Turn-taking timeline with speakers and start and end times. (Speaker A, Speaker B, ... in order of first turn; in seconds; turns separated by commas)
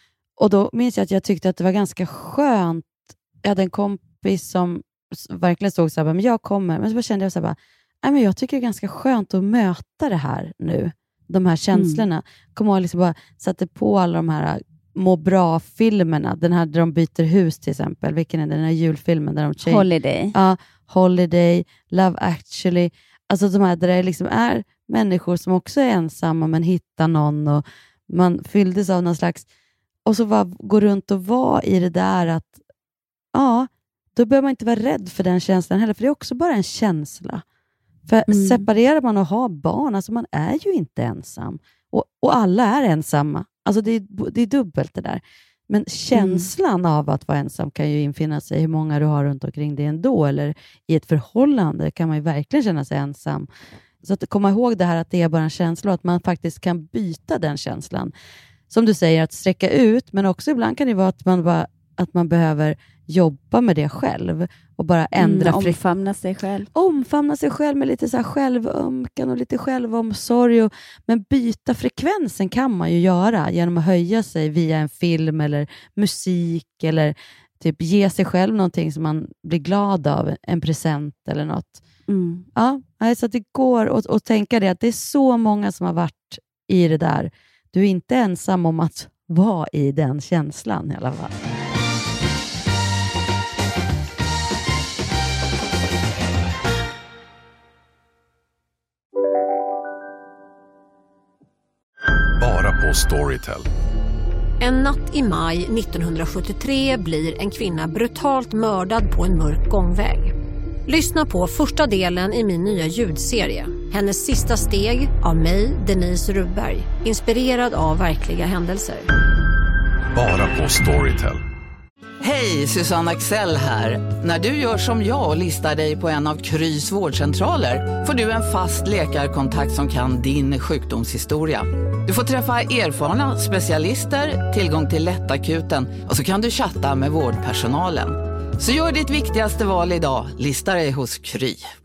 Speaker A: 0.4-29.4, Speaker B: 11.7-12.0, Speaker B: 19.6-20.3, Speaker A: 30.0-32.5, Speaker A: 33.3-37.4, Speaker A: 38.1-53.5, Speaker B: 38.3-38.6, Speaker B: 46.1-46.5, Speaker A: 54.0-58.1, Speaker A: 58.7-65.8, Speaker B: 65.2-66.7, Speaker A: 66.7-81.8, Speaker B: 82.1-82.5, Speaker A: 82.5-91.3, Speaker C: 102.4-103.7, Speaker D: 104.6-110.3, Speaker D: 110.9-119.1, Speaker C: 120.1-121.4, Speaker E: 122.2-141.6